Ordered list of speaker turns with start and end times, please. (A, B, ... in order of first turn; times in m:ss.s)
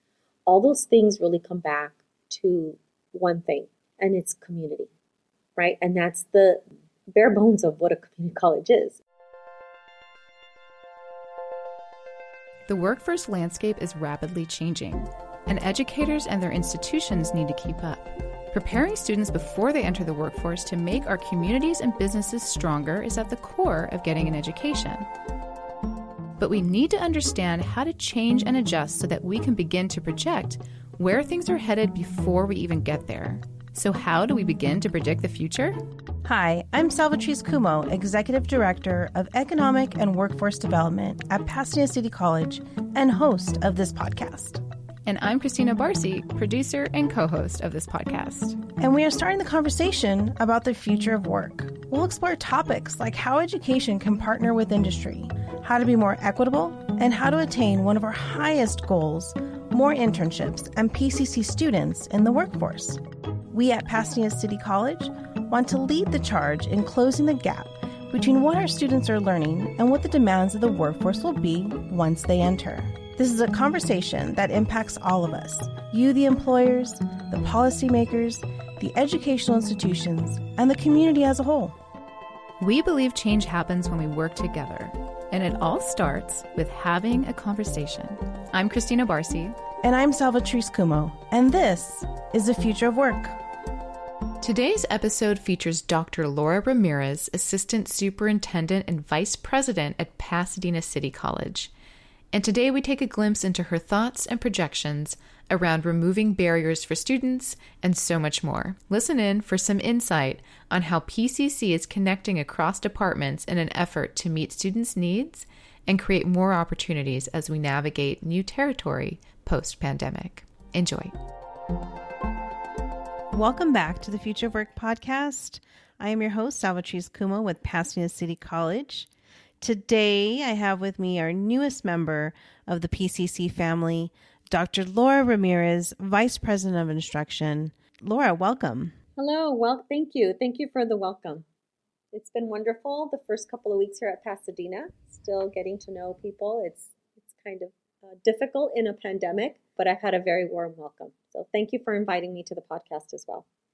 0:00.5-0:04.9 A
0:05.6-0:06.6 A
0:07.1-0:09.0 A
0:12.7-0:25.1 B
0:26.4-0:35.8 B
0:36.2-0:44.6 C
0:45.1-0:48.6 B
0:48.8-1:03.0 C
1:03.5-1:21.8 C
1:22.6-1:29.6 B
1:29.8-1:33.4 C
1:34.4-1:41.7 B
1:42.3-2:01.2 B
2:03.3-2:09.1 C
2:09.6-2:18.9 C
2:19.2-2:21.4 A
2:22.1-2:33.5 A